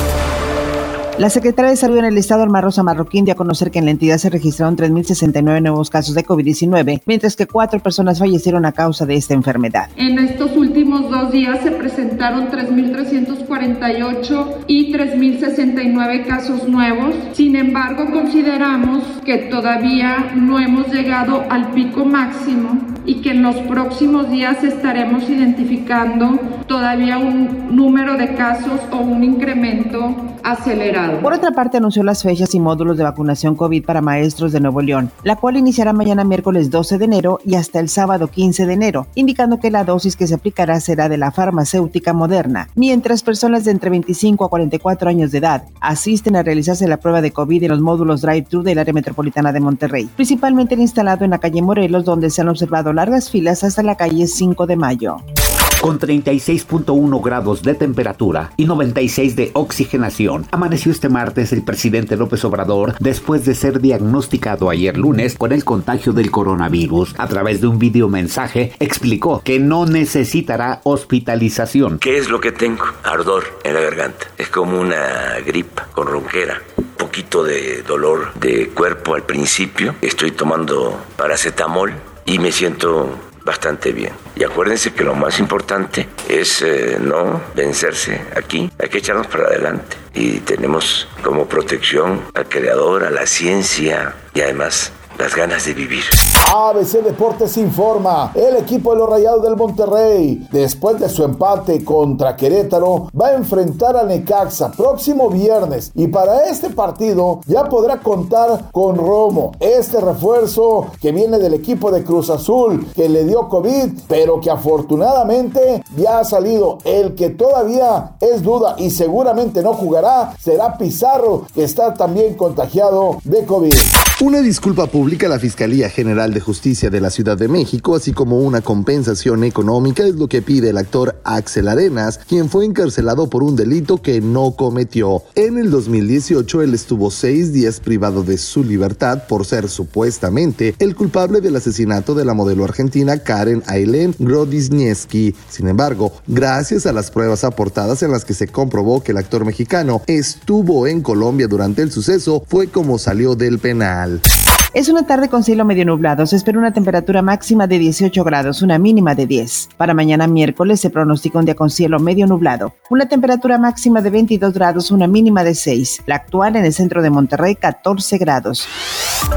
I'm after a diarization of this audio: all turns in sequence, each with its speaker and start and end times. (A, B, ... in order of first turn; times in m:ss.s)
0:01.2-0:09.9 A
0:10.0-0:31.3 B
0:31.2-0:55.2 A
0:55.8-1:12.0 C
1:12.0-1:36.2 D
1:36.4-2:03.9 E
2:04.2-2:34.2 F
2:34.7-2:48.7 A